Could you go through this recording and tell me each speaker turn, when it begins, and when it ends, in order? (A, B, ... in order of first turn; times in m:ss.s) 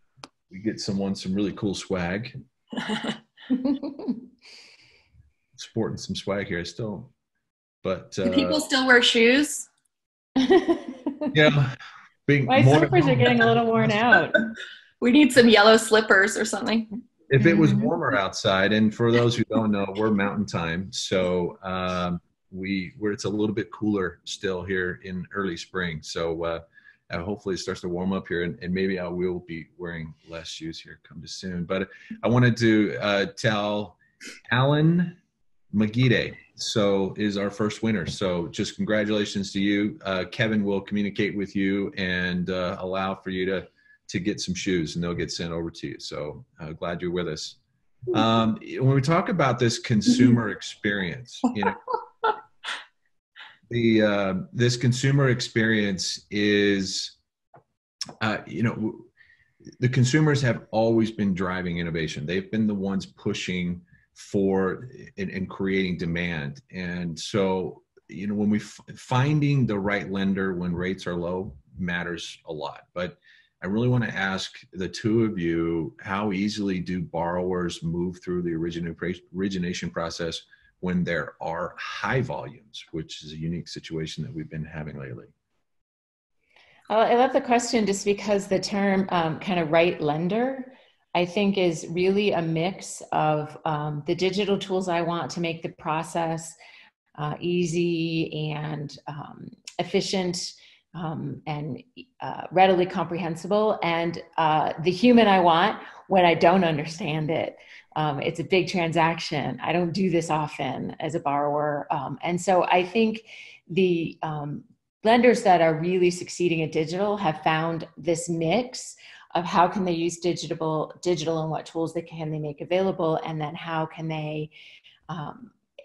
0:00.5-0:02.3 A
0:05.6-0:07.1 A
0:07.8-0:08.6 A
0:08.2-0:09.7 B
0:10.4-0:11.3 C
0:11.3-0:14.2 A
0:12.5-0:14.5 C
0:15.0-0:16.9 B
0:17.3-0:35.2 A
0:17.4-0:17.9 C
0:35.7-0:47.6 A
0:48.1-0:51.8 A
0:53.7-0:57.2 A
0:58.2-0:59.1 A
0:59.8-1:25.3 A
1:26.9-1:36.6 C
1:37.2-2:04.5 C
2:05.1-2:05.5 C